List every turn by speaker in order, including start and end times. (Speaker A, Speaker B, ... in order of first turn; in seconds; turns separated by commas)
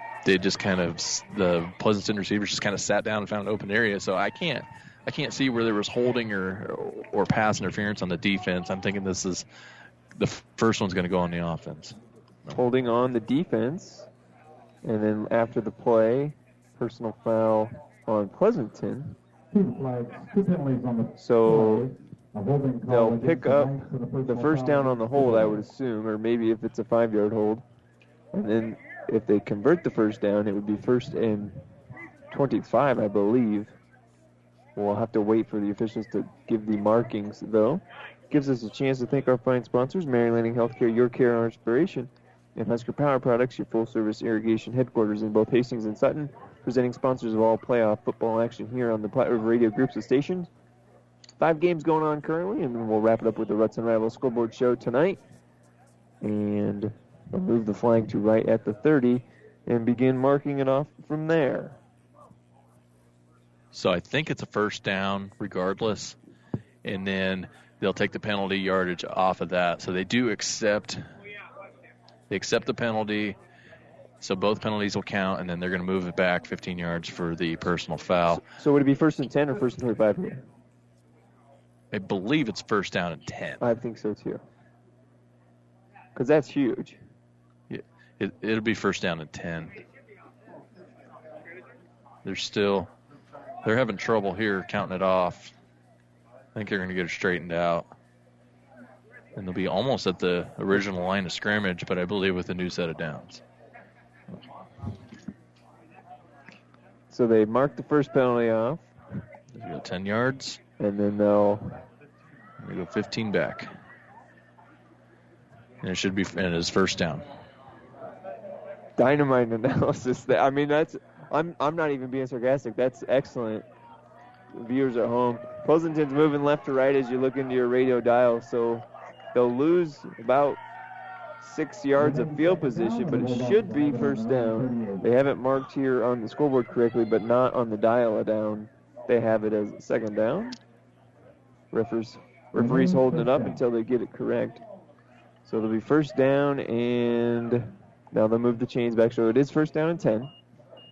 Speaker A: 0.2-9.4, Speaker A: 10.2-12.6, Speaker B: 12.5-14.1, Speaker B: 14.8-19.1, Speaker C: 19.5-25.7, Speaker B: 21.2-21.9, Speaker B: 22.9-27.6, Speaker B: 28.3-31.6, Speaker B: 32.3-33.7, Speaker B: 34.8-50.5, Speaker B: 51.4-55.2, Speaker B: 56.2-61.8, Speaker A: 63.7-66.2, Speaker A: 66.8-71.0, Speaker A: 72.3-73.4, Speaker A: 74.2-78.4, Speaker B: 78.3-80.4, Speaker A: 81.9-83.6, Speaker B: 83.6-84.4, Speaker B: 86.1-87.0, Speaker A: 87.7-89.8, Speaker A: 92.2-92.9, Speaker A: 93.6-95.5, Speaker A: 96.5-97.9, Speaker A: 99.3-103.4, Speaker B: 107.1-108.9, Speaker A: 109.5-110.6, Speaker B: 110.8-111.7, Speaker A: 112.6-113.7, Speaker A: 115.8-117.2, Speaker B: 119.0-123.6, Speaker B: 124.5-130.6, Speaker B: 131.4-140.6, Speaker C: 131.9-135.1, Speaker B: 141.7-144.6, Speaker C: 142.6-143.6, Speaker B: 145.4-150.3